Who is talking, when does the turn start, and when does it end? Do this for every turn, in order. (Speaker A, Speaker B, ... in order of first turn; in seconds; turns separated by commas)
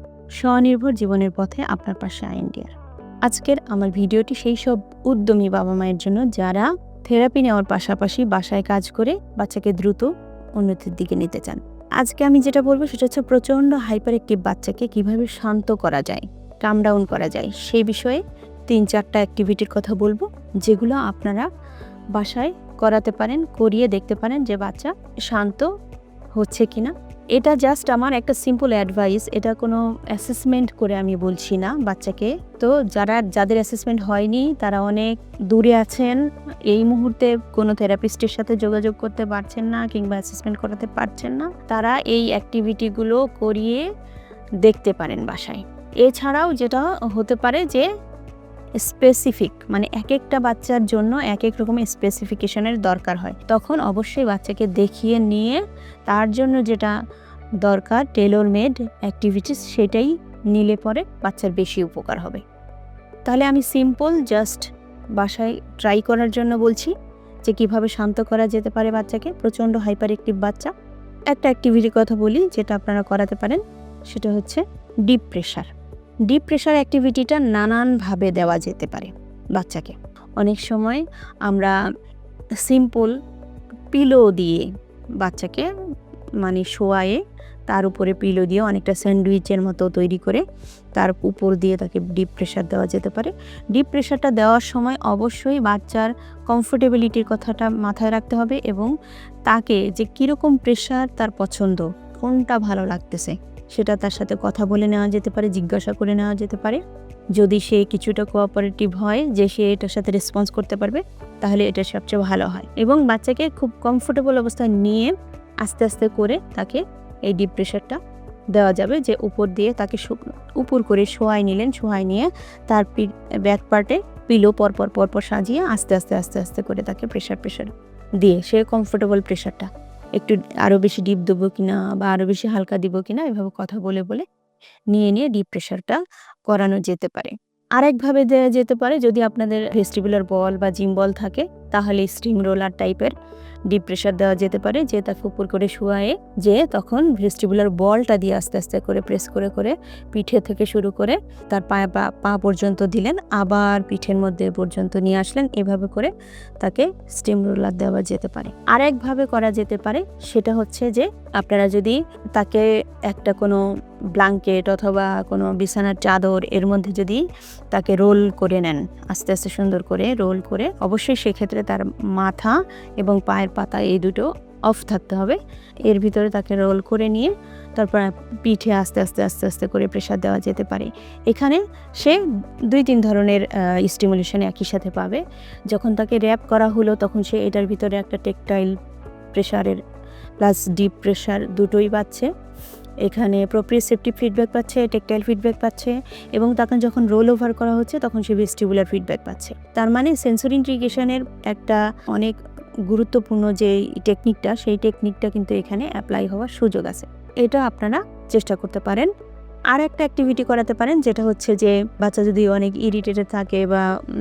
Speaker A: 0.4-2.7, Speaker A: 3.3-10.1, Speaker A: 10.6-21.5, Speaker A: 22.2-25.7, Speaker A: 26.4-36.2, Speaker A: 36.7-43.8, Speaker A: 44.6-47.9, Speaker A: 48.8-56.9, Speaker A: 57.6-62.4, Speaker A: 63.3-64.7, Speaker A: 65.2-66.9, Speaker A: 67.5-70.7, Speaker A: 71.3-75.7, Speaker A: 76.3-81.7, Speaker A: 82.7-83.1, Speaker A: 83.9-84.6, Speaker A: 85.2-85.7, Speaker A: 86.4-90.4, Speaker A: 91.0-98.9, Speaker A: 99.5-106.8, Speaker A: 107.4-115.1, Speaker A: 115.6-118.0, Speaker A: 118.5-127.7, Speaker A: 128.2-134.2, Speaker A: 134.9-143.1, Speaker A: 143.7-156.1, Speaker A: 156.6-163.6, Speaker A: 164.2-167.2, Speaker A: 167.7-182.2, Speaker A: 182.7-185.2, Speaker A: 185.7-188.7, Speaker A: 189.3-189.8, Speaker A: 190.4-192.3, Speaker A: 193.1-202.3, Speaker A: 202.9-209.1, Speaker A: 209.7-213.8